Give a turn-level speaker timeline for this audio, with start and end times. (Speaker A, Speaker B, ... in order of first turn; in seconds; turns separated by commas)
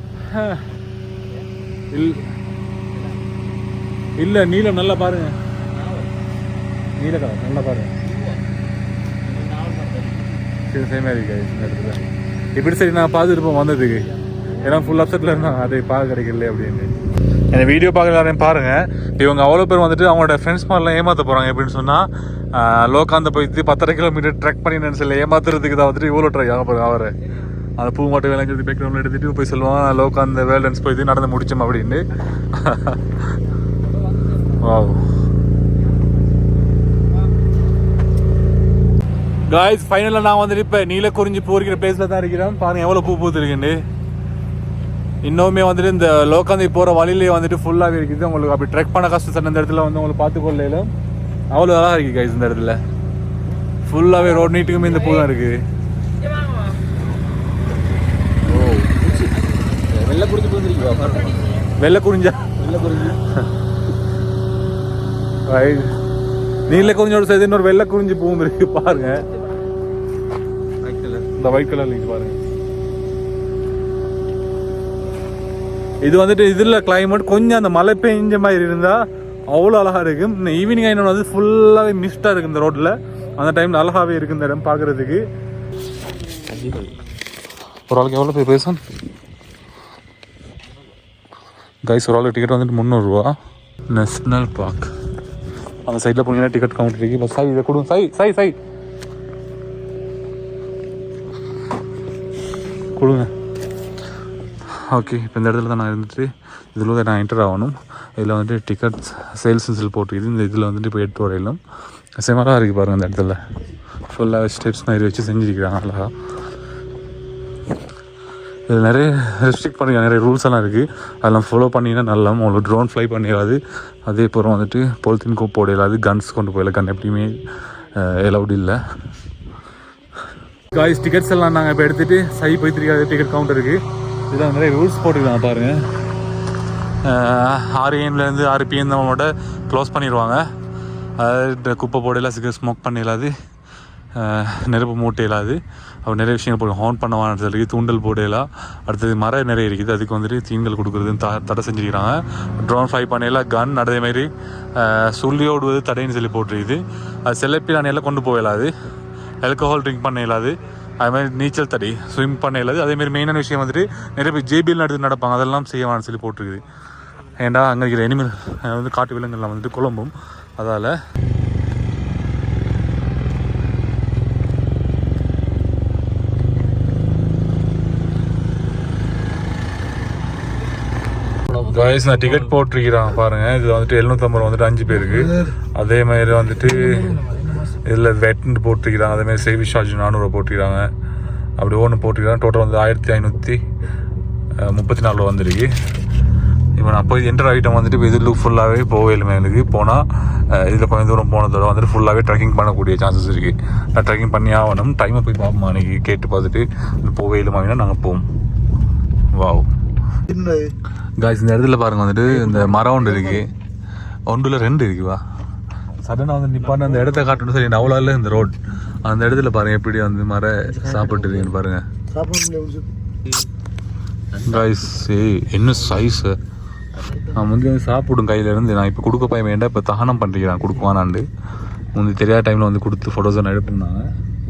Speaker A: 0.3-0.6, Speaker A: 1.9-2.2, Speaker A: 4.2-5.3, Speaker A: 7.0-7.9, Speaker B: 9.5-10.1, Speaker A: 10.7-17.0, Speaker A: 17.5-27.1, Speaker A: 27.8-33.2, Speaker A: 34.6-35.0, Speaker A: 39.5-43.8, Speaker A: 45.2-50.9, Speaker A: 51.5-52.8, Speaker A: 53.9-55.6, Speaker A: 58.5-59.0, Speaker B: 59.0-61.6, Speaker A: 61.7-62.5, Speaker B: 62.6-63.2, Speaker A: 65.5-65.9, Speaker A: 66.6-69.3, Speaker B: 70.8-71.2, Speaker A: 71.3-72.4, Speaker A: 76.0-85.2, Speaker B: 86.5-87.0, Speaker A: 87.9-88.8, Speaker A: 91.8-93.3, Speaker A: 93.9-94.9, Speaker A: 95.8-98.5, Speaker A: 103.0-103.3, Speaker A: 104.7-111.6, Speaker A: 112.2-113.4, Speaker A: 114.1-116.1, Speaker A: 118.7-128.8, Speaker A: 130.7-135.8, Speaker A: 137.0-140.4, Speaker A: 141.2-143.3, Speaker A: 144.1-158.7, Speaker A: 159.4-166.6, Speaker A: 167.4-170.9, Speaker A: 181.6-190.9, Speaker A: 191.6-193.6, Speaker A: 194.6-195.7, Speaker A: 196.8-208.2, Speaker A: 209.3-209.7, Speaker C: 210.3-210.7, Speaker A: 211.2-213.5, Speaker C: 212.3-213.4, Speaker A: 214.3-215.2, Speaker A: 216.0-218.5, Speaker B: 216.7-217.4, Speaker A: 219.0-221.8, Speaker B: 220.7-221.5, Speaker C: 222.1-222.9, Speaker A: 224.4-226.4, Speaker A: 227.3-231.2, Speaker A: 231.9-234.0